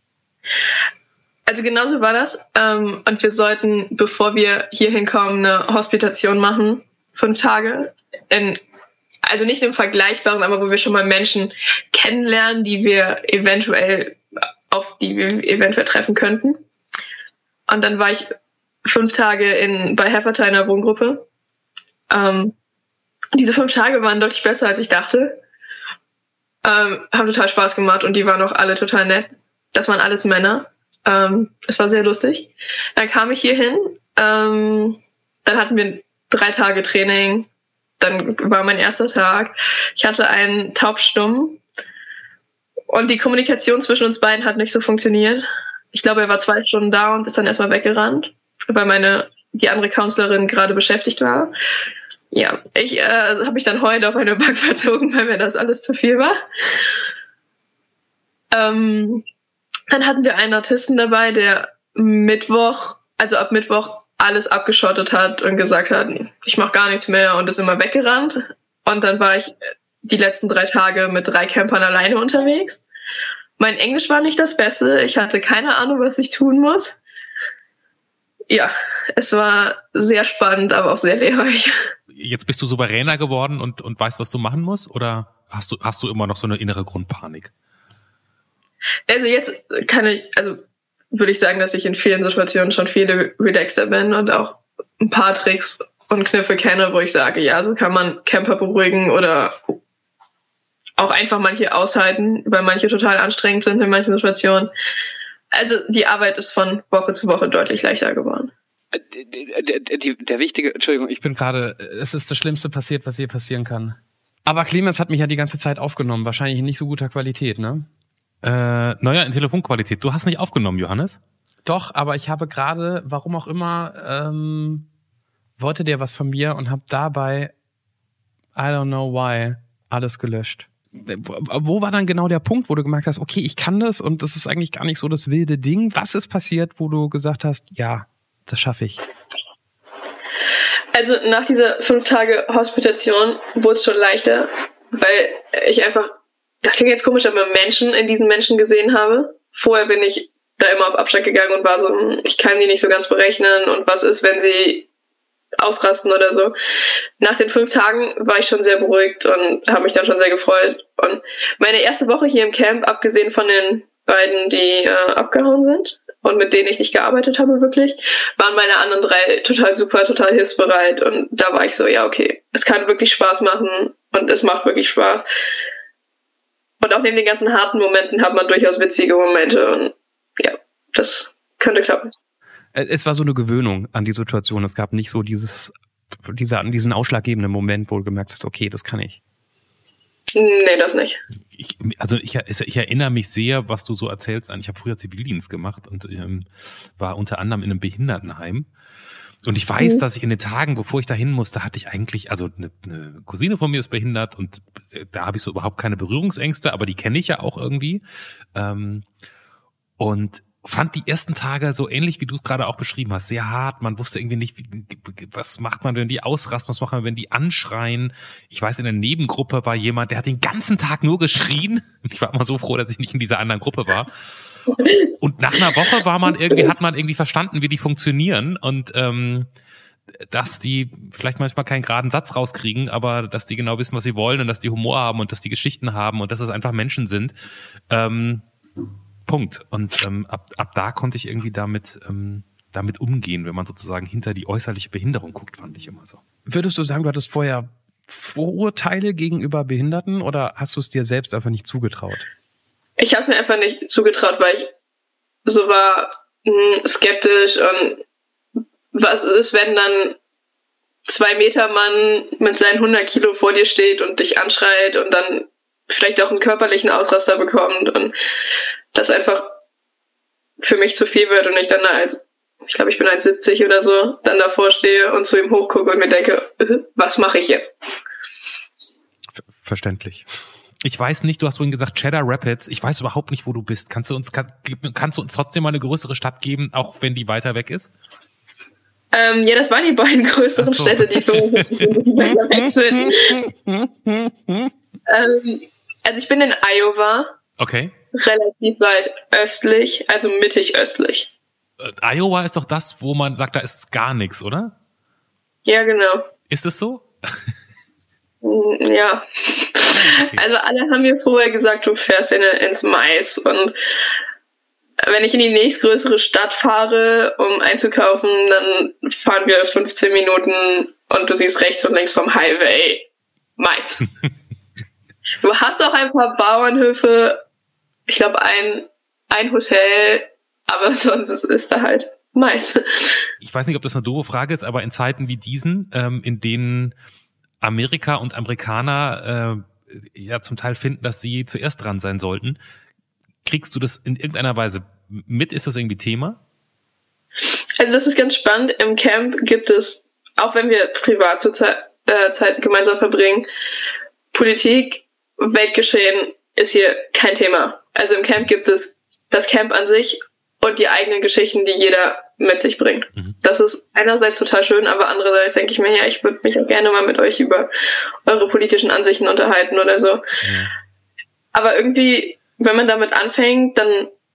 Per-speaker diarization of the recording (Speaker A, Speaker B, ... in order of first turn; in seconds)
Speaker A: 1.5-8.6, 9.2-14.2, 14.7-16.6, 17.7-18.3, 18.8-21.2, 22.1-22.5, 23.3-25.4, 26.6-37.5, 38.0-41.6, 42.9-51.5, 52.3-56.4, 58.5-59.2, 59.9-72.8, 73.6-77.0, 78.5-81.9, 89.1-90.6, 91.1-99.8, 101.0-104.7, 105.5-108.5, 140.9-154.9, 155.6-156.5, 157.2-175.2, 176.8-182.1, 190.3-191.2, 253.0-254.7, 255.4-258.0, 258.9-260.2, 261.1-268.1, 268.9-269.5, 270.6-277.7, 289.1-293.4, 295.1-297.3, 298.1-301.3, 305.6-306.3, 308.4-313.8, 315.0-323.1, 323.6-324.1, 325.4-327.4, 328.1-333.3, 347.8-353.5, 354.3-367.7, 368.2-370.2, 371.5-374.1
Speaker B: 82.1-87.5, 118.4-121.2, 191.5-198.7, 199.4-208.0, 208.5-209.1, 210.0-224.1, 225.1-229.5, 230.1-237.3, 237.9-238.4, 239.2-246.2, 280.8-287.9, 290.6-292.0, 297.6-297.9, 301.8-304.7, 306.5-307.5, 309.9-310.4, 333.4-336.9, 337.6-342.6, 343.4-346.4, 370.4-370.7
Speaker C: 108.9-117.9, 121.6-124.9, 125.6-127.5, 128.6-139.0, 182.7-189.2, 246.4-252.3, 279.4-280.2, 293.1-294.7